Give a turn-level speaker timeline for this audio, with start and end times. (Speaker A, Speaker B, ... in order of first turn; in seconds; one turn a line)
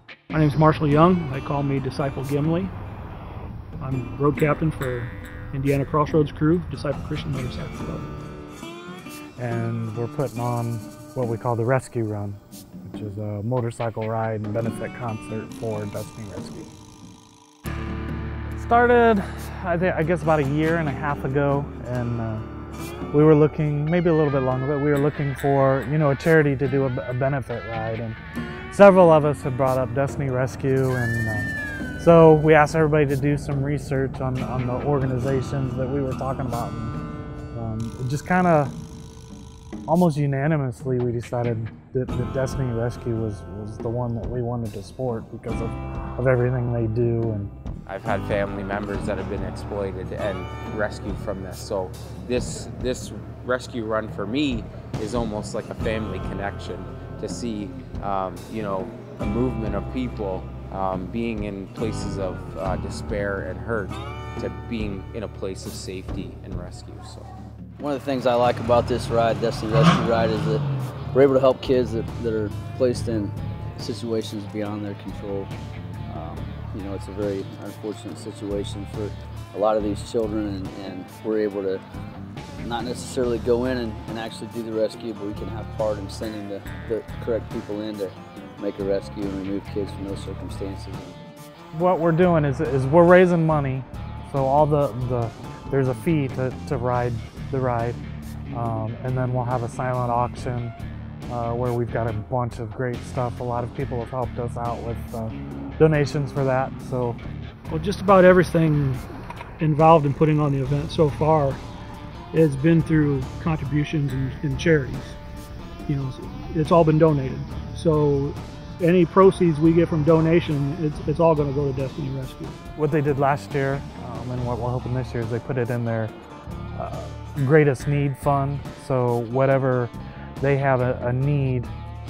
Speaker A: 0.3-2.7
Speaker A: 3.8-8.1
Speaker B: 9.4-16.7
Speaker B: 18.5-22.4
Speaker B: 23.1-28.2
Speaker B: 28.7-37.0
Speaker B: 37.5-38.7
Speaker B: 39.9-47.5
Speaker C: 47.9-67.3
Speaker D: 67.8-75.5
Speaker D: 76.1-81.8
Speaker D: 82.6-91.2
Speaker B: 91.7-98.0
Speaker B: 98.5-100.7
Speaker B: 101.3-107.2
Speaker A: 107.7-109.0
Speaker A: 109.6-111.6
Speaker A: 112.3-115.2
Speaker A: 115.9-122.6
Speaker B: 122.8-126.1
Speaker B: 126.8-131.7